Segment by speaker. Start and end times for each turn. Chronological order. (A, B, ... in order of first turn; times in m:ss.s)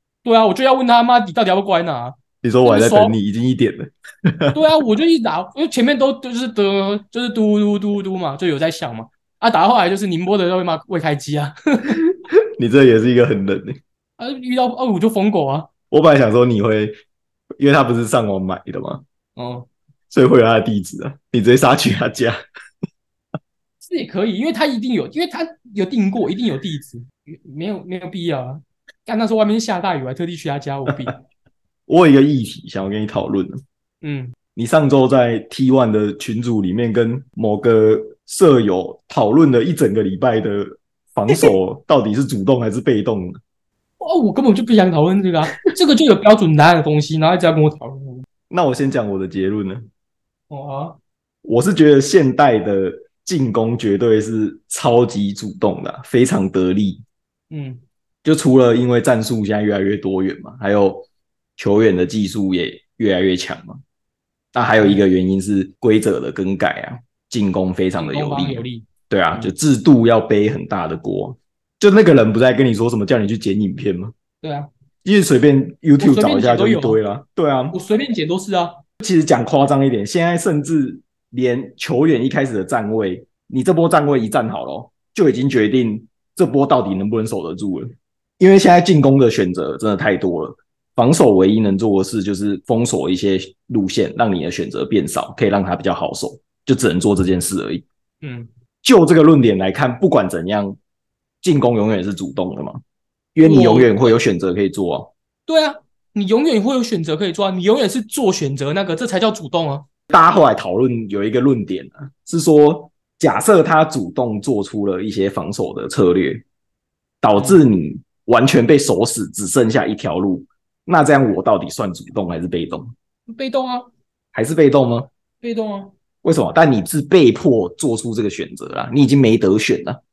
0:00.2-0:03.2 A
0:02.4-0:04.6 B
0:04.6-0:12.0 A
0:11.9-0:13.8 B
0:14.2-0:15.7 A
0:15.9-0:16.9 B
0:17.6-0:19.0 B
0:19.4-0:19.7 A
0:20.1-0:22.4 B
0:23.8-0:31.2 A
0:31.9-0:33.6 B
0:34.0-0:34.4 A
0:34.6-0:43.4 B
0:44.0-0:48.3 A
0:48.5-0:49.8 B
0:50.5-0:51.0 A
0:51.4-0:57.0 B
0:57.5-0:57.8 A
0:58.2-1:01.1 B
1:01.6-1:03.8 B
1:04.5-1:14.1 B
1:08.0-1:09.5 A
1:14.4-1:14.7 A
1:15.0-1:17.8 B
1:16.0-1:17.0 A
1:17.7-1:18.8 A
1:19.0-1:37.8 B
1:38.2-1:38.5 A
1:38.8-1:40.8 B
1:41.4-1:42.8 B
1:43.4-1:45.1 B
1:43.4-1:44.2 A
1:45.5-1:49.9 A
1:50.1-1:56.4 B
1:57.2-2:02.9 B
2:03.3-2:03.9 A
2:04.3-2:05.1 B
2:05.4-2:05.9 A
2:06.2-2:10.0 B